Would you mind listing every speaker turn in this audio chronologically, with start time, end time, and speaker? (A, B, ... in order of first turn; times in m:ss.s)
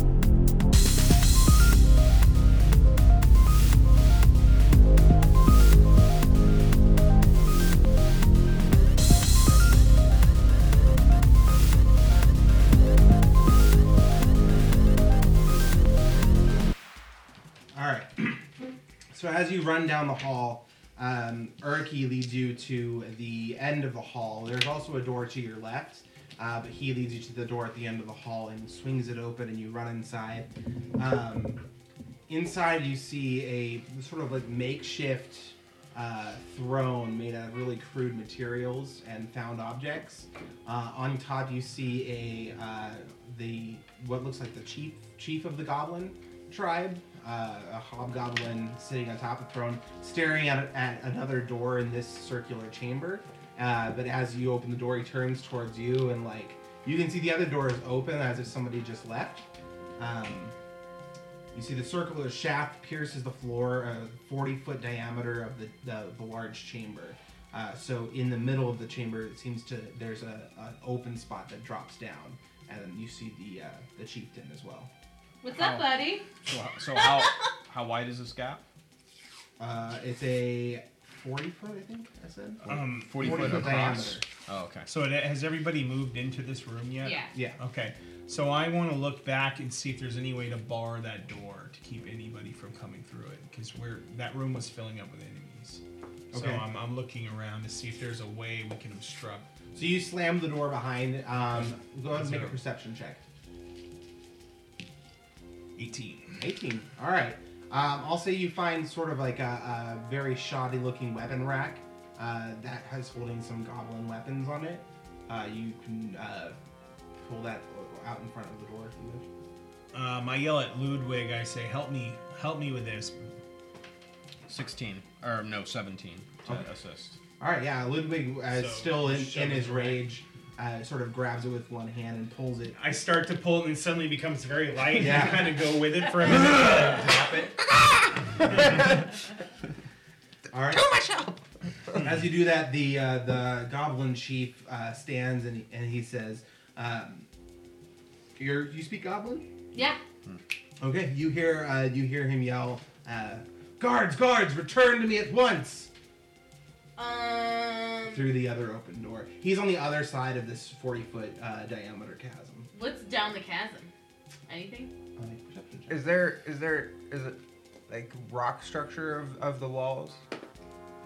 0:17.7-0:18.4 A
0:19.1-0:31.6 A
0:32.3-0:59.5 A
1:00.0-1:00.6 A
1:01.5-1:14.9 A
1:15.4-1:16.3 B
1:15.6-1:18.6 C
1:17.0-1:17.3 B
1:19.6-1:24.3 A
1:22.7-1:24.9 C
1:22.7-1:24.1 D
1:24.9-1:39.6 D
1:27.0-1:27.3 B
1:27.3-1:27.6 A
1:36.3-1:36.6 A
1:39.8-1:43.2 A
1:42.2-1:42.6 D
1:45.8-1:46.4 D
1:46.4-1:56.6 A
1:57.2-1:59.3 A
1:59.9-2:03.2 D
2:04.5-2:07.2 C
2:07.4-2:12.8 A
2:08.5-2:10.1 D
2:12.7-2:17.6 D
2:15.0-2:15.6 A
2:18.4-2:18.9 D
2:20.5-2:20.9 A
2:21.0-2:21.3 B
2:21.9-2:27.3 A
2:28.4-2:29.5 A
2:29.7-2:30.0 B
2:30.8-2:35.9 A
2:37.0-2:38.2 B
2:38.1-2:42.7 A
2:42.7-2:43.9 B
2:44.5-2:44.9 B
2:45.2-2:46.1 A
2:45.9-2:50.2 E